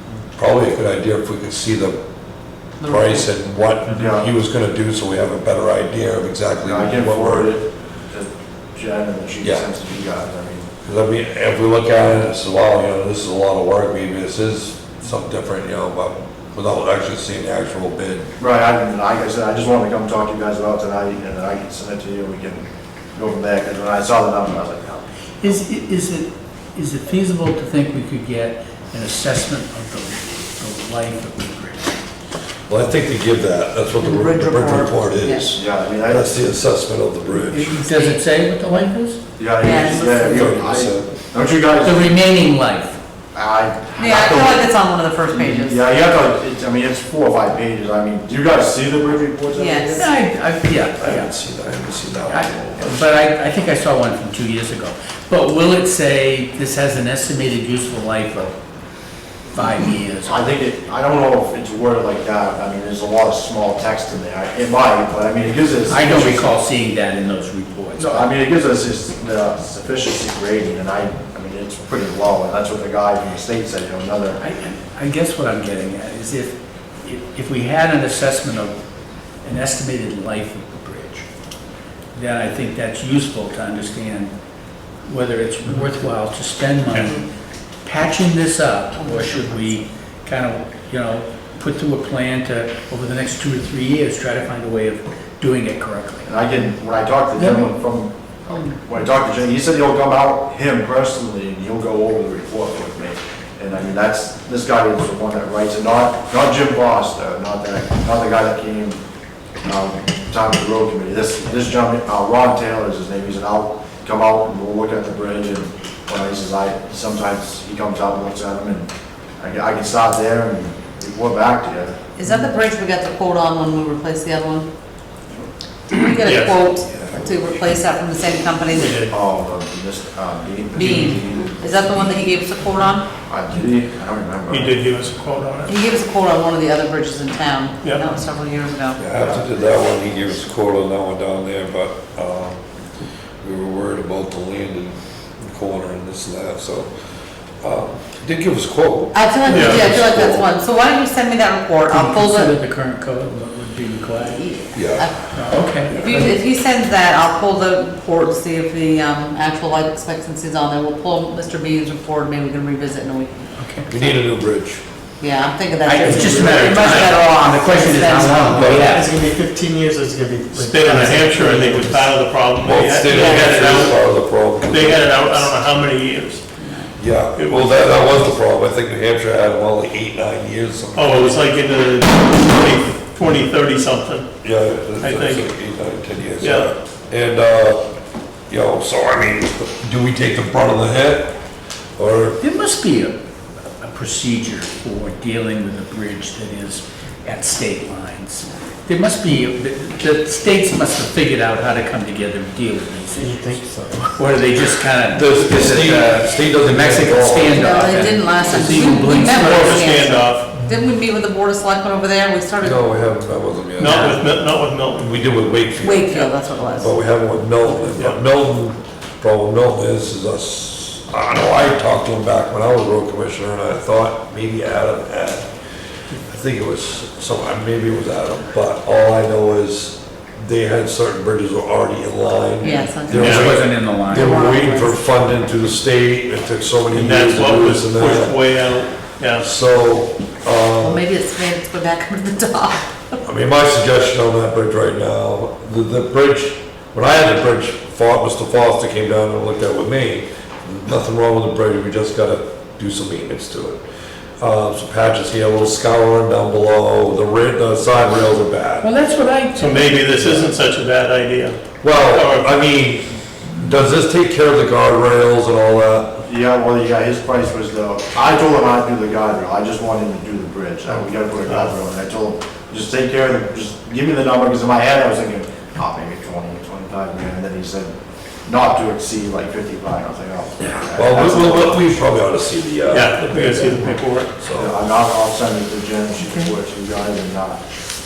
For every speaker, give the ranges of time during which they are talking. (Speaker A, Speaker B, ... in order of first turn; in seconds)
Speaker A: 0.3-2.0, 2.8-7.5, 9.4-9.7, 10.8-18.3, 32.7-37.7, 40.1-41.1, 51.0-53.0, 126.9-127.6, 139.0-142.6, 143.4-146.9, 147.6-150.5, 154.7-155.1, 163.9-164.8, 172.6-175.4, 177.0-181.4, 184.4-187.9, 188.5-191.3, 192.0-192.4, 205.1-207.7, 212.6-214.2, 215.0-225.5, 226.1-238.4, 239.4-241.0, 243.2-253.8, 254.4-258.9, 261.8-266.2, 280.6-284.7
Speaker B: 2.8-3.2, 34.0-35.5, 37.8-38.2, 39.6-40.5, 44.0-45.8, 49.5-50.0, 86.9-87.2, 89.0-89.7, 122.2-124.7, 125.9-129.0, 130.7-133.1, 135.7-139.0, 149.1-152.5, 154.2-163.5, 165.2-168.8, 173.1-173.5, 176.6-176.9, 207.5-213.0, 215.8-216.9, 232.6-233.3, 233.9-234.9, 240.8-243.1
Speaker C: 3.9-4.3, 6.6-10.7, 18.4-25.5, 35.5-36.4, 39.4-42.2, 43.3-44.7, 45.3-50.1, 60.2-66.5, 67.9-74.4, 96.2-109.0, 109.6-122.0, 129.1-132.0, 133.2-134.8, 139.2-139.4, 266.2-277.9, 278.4-281.9, 284.5-287.6
Speaker D: 25.4-32.0, 37.5-39.2, 41.8-43.0, 49.9-51.3, 52.3-58.5, 59.5-60.5, 65.8-68.3, 74.3-78.7, 79.4-81.2, 82.1-84.3, 85.1-87.2, 87.8-96.3, 151.9-154.4, 155.3-156.3, 163.6-163.9, 165.8-169.1, 192.4-193.2, 193.8-210.0, 213.8-214.2, 233.1-234.3, 258.8-260.5
Speaker E: 126.2-126.6, 128.7-129.1, 134.5-135.8, 137.8-138.1, 149.5-149.9, 166.1-167.3, 170.5-174.1, 174.6-176.4, 177.3-178.3, 180.9-184.3, 185.0-185.5, 186.4-186.7, 209.0-210.5, 213.8-215.2, 233.1-233.6, 236.9-239.5, 259.5-262.5, 271.5-271.7, 282.9-284.3
Speaker F: 165.9-166.5, 168.6-172.2, 203.1-204.1